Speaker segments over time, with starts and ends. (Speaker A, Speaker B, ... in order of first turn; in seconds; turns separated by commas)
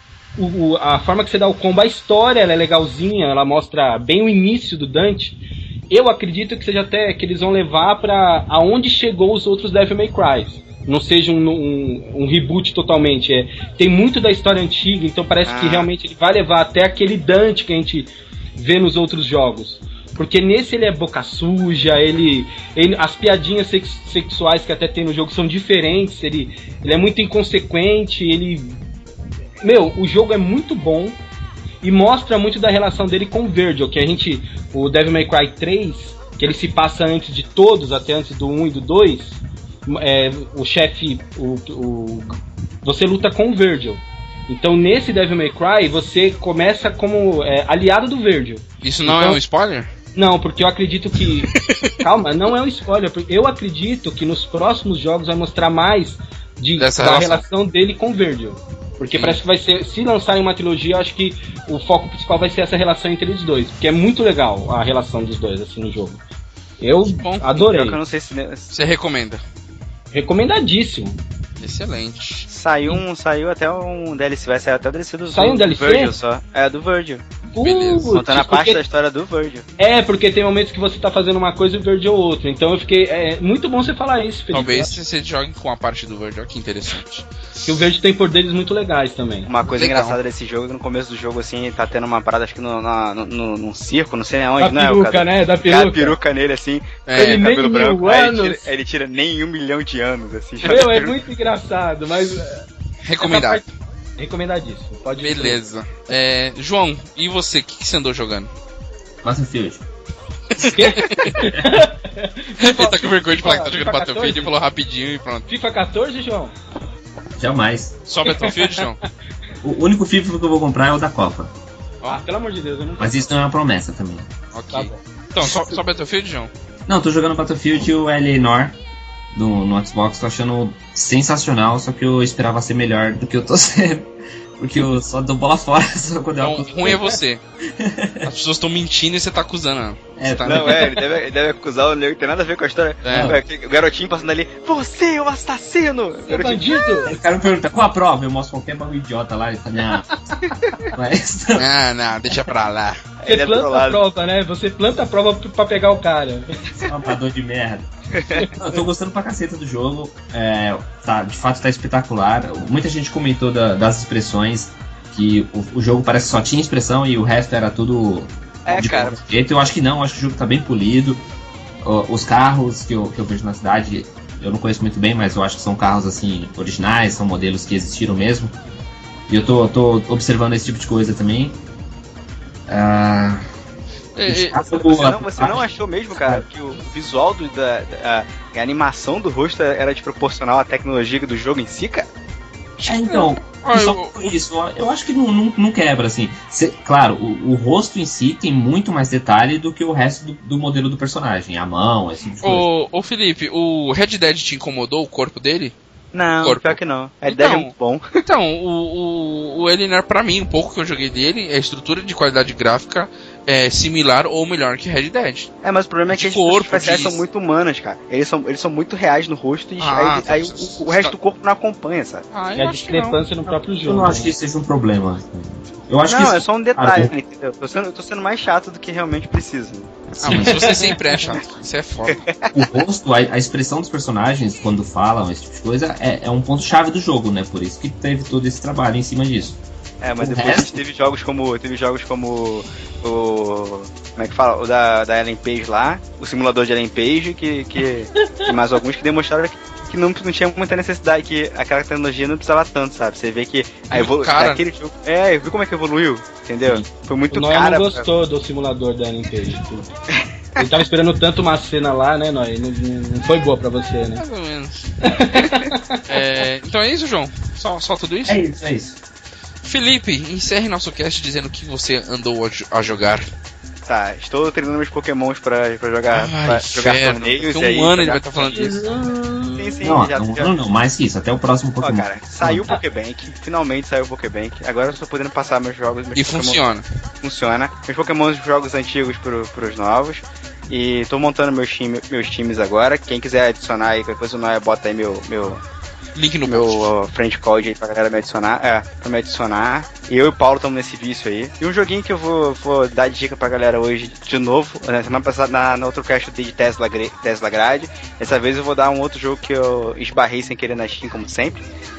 Speaker A: 0.4-5.4, Speaker A: 5.9-28.8, Speaker B: 15.4-15.9, Speaker A: 29.6-31.2, Speaker A: 31.8-49.4, Speaker C: 48.8-49.9, Speaker A: 50.1-66.2, Speaker C: 51.4-52.0, Speaker C: 56.8-57.4, Speaker C: 59.1-59.4, Speaker A: 66.8-68.0, Speaker C: 67.0-67.5, Speaker B: 67.5-68.7, Speaker C: 68.7-69.4, Speaker A: 70.1-71.2, Speaker C: 71.6-72.5, Speaker B: 72.5-77.2, Speaker A: 75.3-76.2, Speaker A: 77.5-78.8, Speaker C: 77.6-78.2, Speaker B: 78.1-79.7, Speaker A: 79.8-84.9, Speaker C: 84.5-87.3, Speaker A: 87.7-89.5, Speaker B: 89.5-101.2, Speaker C: 89.7-90.2, Speaker A: 94.6-96.2, Speaker C: 97.1-97.4, Speaker A: 97.1-98.7, Speaker A: 100.6-102.7, Speaker C: 103.0-103.7, Speaker A: 103.2-103.7, Speaker A: 104.2-105.6, Speaker C: 105.2-108.5, Speaker D: 109.2-109.8, Speaker C: 110.5-111.5, Speaker A: 110.6-114.5, Speaker C: 112.6-115.5, Speaker A: 115.5-116.5, Speaker D: 117.4-118.0, Speaker C: 118.1-119.0, Speaker A: 118.2-118.8, Speaker D: 119.6-121.5, Speaker A: 122.1-123.4, Speaker D: 123.0-124.3, Speaker C: 124.5-126.5, Speaker A: 124.7-125.0, Speaker D: 126.9-128.8, Speaker D: 129.3-137.1, Speaker C: 136.4-137.4, Speaker D: 137.8-138.3, Speaker C: 138.2-140.9, Speaker D: 140.2-140.9, Speaker B: 140.5-146.8, Speaker C: 143.0-143.4, Speaker D: 143.1-143.4, Speaker A: 146.2-147.2, Speaker D: 147.1-151.7, Speaker C: 151.6-153.0, Speaker B: 153.2-154.0, Speaker A: 153.3-156.5, Speaker D: 156.8-171.2, Speaker B: 158.2-158.5, Speaker B: 168.7-169.2, Speaker D: 171.8-178.6, Speaker D: 179.3-181.6, Speaker D: 182.7-183.4, Speaker C: 184.2-184.6, Speaker D: 184.3-185.6, Speaker B: 184.8-192.1, Speaker D: 186.2-186.4, Speaker C: 192.8-194.4, Speaker D: 192.8-202.7, Speaker C: 202.4-205.8, Speaker B: 206.1-208.1, Speaker C: 206.4-215.5, Speaker B: 215.6-222.2, Speaker C: 216.1-217.2, Speaker C: 219.8-221.1, Speaker C: 222.3-223.2, Speaker A: 222.6-224.3, Speaker D: 223.8-227.1, Speaker B: 226.1-230.0, Speaker D: 230.1-230.7, Speaker C: 230.2-232.2, Speaker A: 230.3-231.3, Speaker B: 232.1-232.7, Speaker D: 232.5-239.6, Speaker B: 240.0-258.1, Speaker D: 240.2-240.8, Speaker A: 248.2-248.5, Speaker C: 253.9-254.6, Speaker A: 257.3-259.9, Speaker A: 260.6-264.2, Speaker C: 264.2-264.9, Speaker A: 265.0-266.0, Speaker C: 266.1-268.4, Speaker D: 268.3-269.0, Speaker C: 269.6-273.2, Speaker B: 273.9-278.6, Speaker C: 276.1-278.8, Speaker A: 278.5-280.0, Speaker B: 279.6-280.5, Speaker D: 279.8-282.7, Speaker B: 281.8-286.6, Speaker C: 286.1-286.8, Speaker B: 287.2-295.6, Speaker C: 296.1-296.9, Speaker B: 296.5-311.6